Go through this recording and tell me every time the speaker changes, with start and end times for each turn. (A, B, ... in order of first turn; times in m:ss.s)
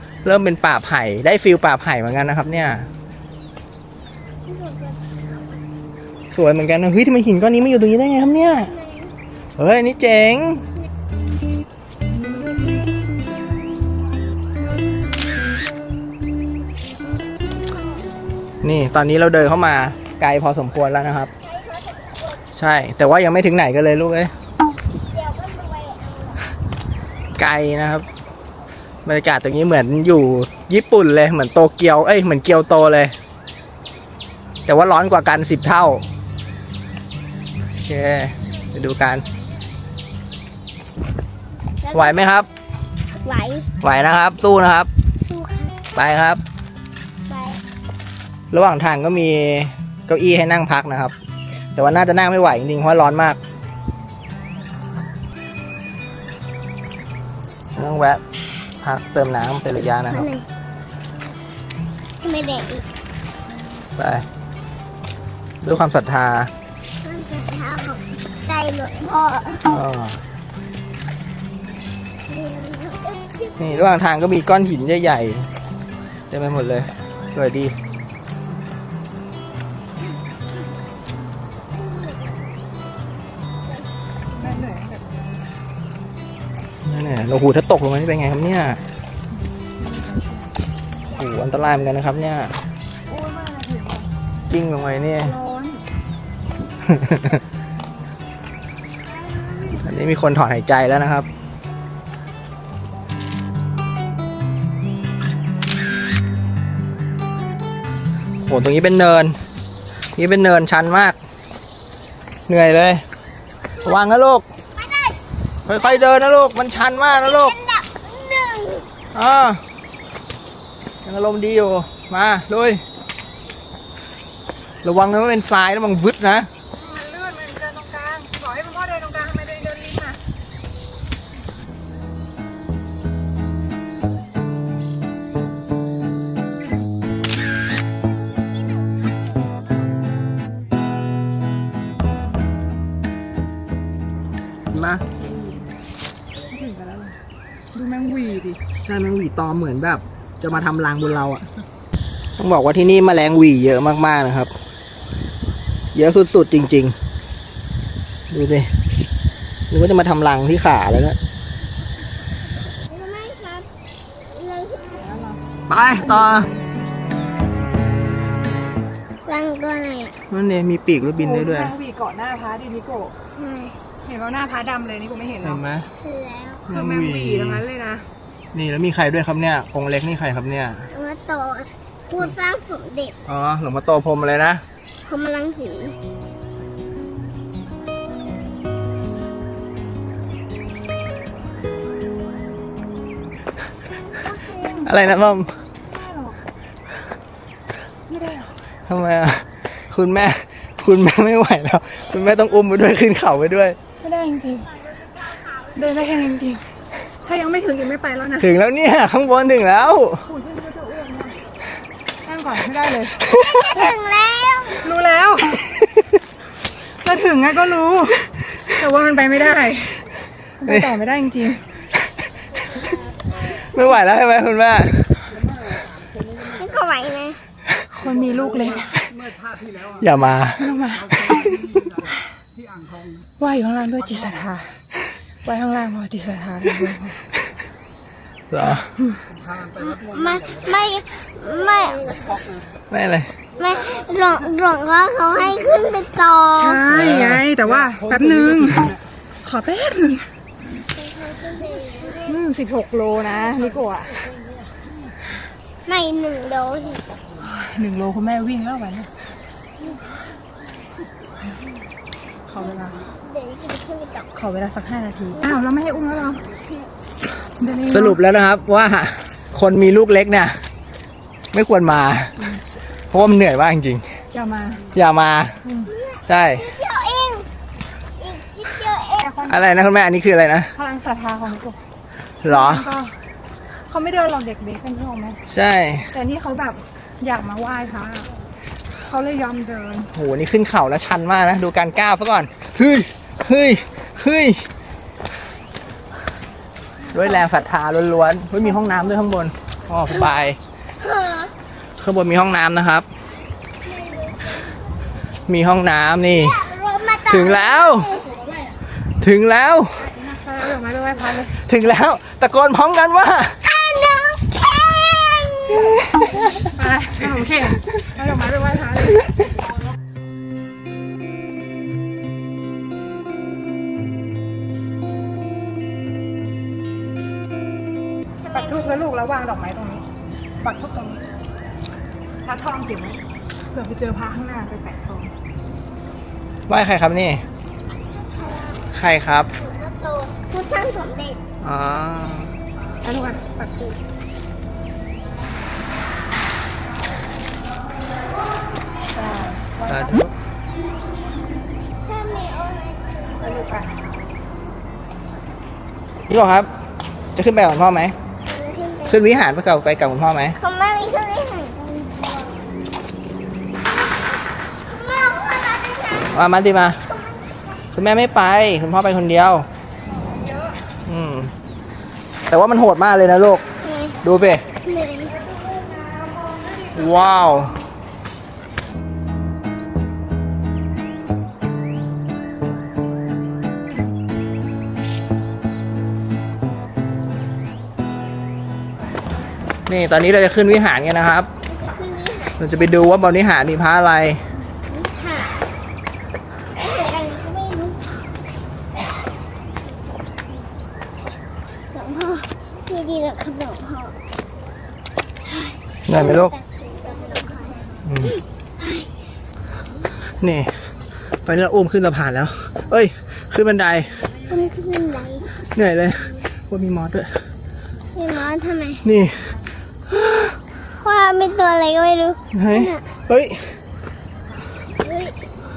0:00.2-0:02.9 A
0:04.4-0:05.2 B
0:06.3-0:08.7 A
0:08.7-0:09.1 B
0:09.6-0:10.6 A
0:18.6-0:21.3 A
0:21.4-0:22.4 B
0:22.5-0:24.3 A
0:25.1-0:26.4 B
0:27.4-0:28.0 A
0:29.0-0:33.1 A
0:34.6-0:36.0 A
0:37.8-0:39.2 A
0:41.8-0:42.3 B
0:41.9-0:42.5 A
0:43.2-0:43.7 B
0:43.8-0:44.9 A
0:45.2-0:45.8 B
0:45.9-0:46.4 A
0:47.3-0:47.6 B
0:48.5-0:51.1 A
0:51.8-0:53.4 A
0:57.8-0:58.2 A
0:58.8-1:00.2 A
1:00.1-1:00.4 B
1:02.2-1:02.8 B
1:04.0-1:04.2 A
1:05.6-1:06.5 A
1:07.0-1:09.8 B
1:09.7-1:10.2 A
1:12.3-1:13.6 B
1:13.6-1:15.5 A
1:16.3-1:17.7 A
1:21.8-1:22.1 B
1:24.3-1:25.4 C
1:26.8-1:28.8 A
1:29.8-1:30.5 C
1:31.1-1:32.6 A
1:33.1-1:34.1 C
1:34.5-1:35.3 A
1:35.2-1:35.8 C
1:36.8-1:37.4 A
1:39.8-1:41.3 A
1:48.4-1:49.4 A
1:50.2-1:51.2 A
1:52.5-1:53.0 A
1:53.8-1:54.4 A
1:54.8-1:55.2 B
1:55.7-1:57.5 A
1:55.7-1:56.0 B
1:57.1-1:58.9 B
1:59.1-1:59.6 A
2:01.0-2:02.8 A
2:04.8-2:06.5 A
2:06.8-2:10.2 C
2:24.7-2:25.0 A
2:26.5-2:27.2 C
2:27.7-2:28.6 C
2:28.8-2:31.4 A
2:32.4-2:34.5 A
2:35.9-2:37.0 A
2:38.3-2:38.7 A
2:39.7-2:41.2 A
2:42.8-2:43.7 B
2:44.2-2:45.1 B
2:45.0-2:45.4 C
2:45.7-2:46.5 A
2:46.0-2:46.6 C
2:49.2-2:50.2 B
2:50.3-2:51.7 A
2:51.2-2:53.1 C
2:53.3-2:53.8 B
2:54.0-2:55.6 C
2:55.4-2:55.9 A
2:56.0-2:56.6 B
2:56.7-2:58.1 C
2:56.7-2:57.6 A
2:58.5-3:00.9 A
3:00.9-3:03.2 B
3:03.3-3:04.6 A
3:05.0-3:06.0 B
3:14.2-3:14.9 C
3:14.8-3:15.5 A
3:15.8-3:16.4 C
3:18.1-3:18.5 C
3:18.9-3:23.8 A
3:24.0-3:24.7 C
3:25.6-3:26.6 C
3:27.2-3:28.5 C
3:28.4-3:30.2 A
3:30.2-3:31.4 C
3:32.2-3:33.2 C
3:33.3-3:34.8 B
3:34.8-3:35.6 C
3:37.0-3:40.0 C
3:40.6-3:41.6 C
3:43.5-3:45.1 A
3:46.4-3:47.4 B
3:47.9-3:49.0 C
3:50.0-3:51.6 A
3:50.6-3:51.7 C
3:53.4-3:54.8 C
3:55.4-3:57.2 C
3:58.5-3:58.9 A
3:59.8-4:02.4 B
4:02.9-4:03.3 A
4:03.6-4:06.8 B
4:06.5-4:10.3 C
4:06.9-4:07.4 A
4:10.9-4:12.3 B
4:12.2-4:14.2 C
4:15.8-4:17.0 B
4:17.4-4:19.1 C
4:22.5-4:23.0 C
4:23.1-4:24.3 B
4:24.3-4:26.4 C
4:27.6-4:28.2 C
4:27.9-4:30.6 A
4:31.5-4:32.3 A
4:33.1-4:34.2 A
4:34.3-4:34.9 C
4:34.9-4:35.6 A
4:35.6-4:35.9 C
4:35.9-4:37.5 B
4:36.3-4:36.6 A
4:38.2-4:39.4 B
4:39.2-4:39.7 C
4:39.5-4:40.7 A
4:40.7-4:41.8 C
4:42.4-4:42.9 A
4:42.5-4:43.2 C
4:43.9-4:45.4 C
4:45.5-4:46.1 A
4:46.1-4:48.3 C
4:48.9-4:50.1 C
4:50.1-4:54.6 A
4:57.1-5:00.6 A
5:01.0-5:01.5 B
5:02.0-5:03.0 A
5:03.9-5:04.5 B
5:05.5-5:06.6 A
5:06.3-5:08.3 B
5:07.3-5:08.2 A
5:09.2-5:10.1 A
5:10.0-5:11.6 C
5:11.6-5:13.6 A
5:13.6-5:16.0 B
5:16.6-5:19.4 C
5:28.4-5:29.0 B
5:28.5-5:30.0 C
5:30.6-5:31.2 C
5:32.4-5:35.3 C
5:36.7-5:37.4 A
5:38.3-5:38.8 B
5:38.9-5:39.5 A
5:39.6-5:41.4 B
5:41.6-5:42.5 A
5:43.0-5:44.0 C
5:49.1-5:50.2 C
5:49.9-5:50.3 A
5:52.0-5:53.8 B
5:53.4-5:54.0 C
5:56.3-5:56.7 A
5:57.4-5:58.2 A
5:58.4-5:59.3 B
5:59.1-6:00.6 A
6:00.6-6:02.5 B
6:04.9-6:06.4 B
6:06.3-6:07.0 A
6:07.9-6:09.7 A
6:10.1-6:10.8 C
6:11.0-6:11.5 A
6:12.5-6:13.6 A
6:13.8-6:14.2 B
6:14.2-6:14.6 A
6:14.8-6:15.3 B
6:15.3-6:17.6 C
6:16.9-6:17.7 A
6:29.9-6:31.5 A
6:31.7-6:32.6 B
6:32.6-6:34.4 A
6:34.8-6:35.6 B
6:36.8-6:38.0 B
6:41.9-6:44.2 B
6:45.4-6:47.9 B
6:46.1-6:46.5 A
6:48.0-6:48.3 A
6:50.4-6:50.7 A
6:51.4-6:54.2 A
6:54.5-6:55.5 B
6:55.7-6:57.4 A
6:58.1-6:59.0 B
6:59.0-6:59.4 A
7:00.1-7:00.5 A
7:01.0-7:03.0 B
7:02.5-7:03.6 A
7:05.0-7:05.3 B